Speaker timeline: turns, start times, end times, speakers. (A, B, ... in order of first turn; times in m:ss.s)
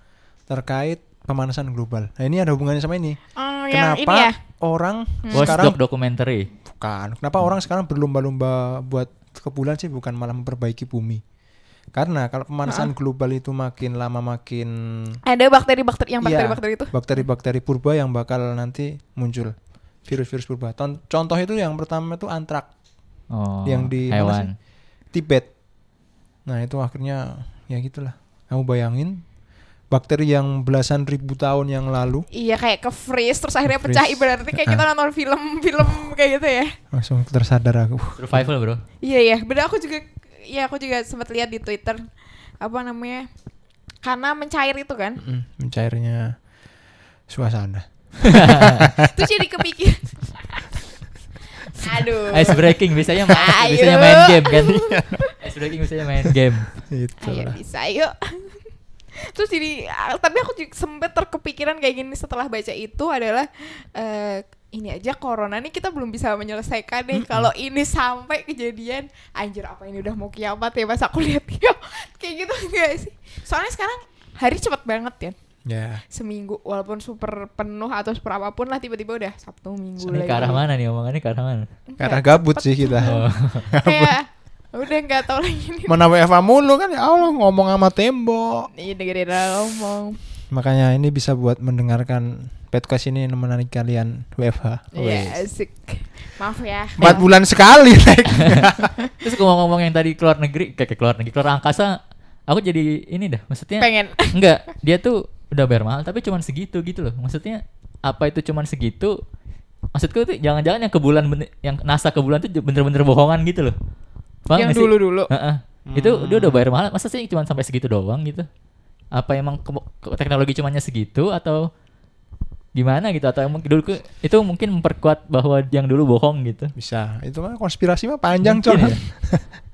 0:00.5-0:03.2 A
0:03.4-0:04.4 B
0:03.7-0:05.8 A
0:05.2-0:05.6 B
0:05.3-0:06.5 C
0:06.7-0:11.2 A
0:11.9-0:15.2 A
0:15.2-0:16.9 B
0:16.2-0:19.5 A
0:20.0-0:22.7 A
0:23.3-0:24.5 C
0:23.6-0:24.5 A
0:25.1-0:25.5 A
0:26.5-0:29.2 A
0:29.9-0:32.2 A
0:32.3-0:36.7 B
0:33.6-0:34.8 A
0:36.9-0:38.5 A
0:38.2-0:38.8 C
0:39.0-0:42.0 B
0:42.6-0:43.3 B
0:44.0-0:45.2 B
0:45.2-0:46.4 A
0:47.3-0:49.2 A
0:48.2-0:48.9 C
0:49.0-0:50.6 B
0:51.7-0:52.8 B
0:52.2-0:54.8 C
0:53.3-0:55.4 B
0:54.7-0:55.2 A
0:55.4-0:56.7 C
0:56.9-0:57.6 A
0:57.2-0:58.6 B
0:59.2-1:15.4 B
1:07.1-1:07.5 A
1:15.6-1:16.0 A
1:16.1-1:20.6 B
1:20.0-1:21.7 C
1:21.9-1:26.0 B
1:22.0-1:24.2 A
1:23.0-1:23.7 C
1:25.9-1:28.7 A
1:28.7-1:30.2 B
1:30.5-1:35.0 A
1:34.9-1:37.2 B
1:35.0-1:35.4 C
1:37.0-1:38.9 A
1:38.4-1:49.2 C
1:43.8-1:44.4 B
1:49.9-1:53.7 C
1:54.5-1:58.5 C
1:54.5-1:55.3 B
1:55.9-1:56.7 A
1:59.1-2:01.6 C
2:02.7-2:06.7 C
2:06.8-2:09.4 A
2:08.4-2:09.0 C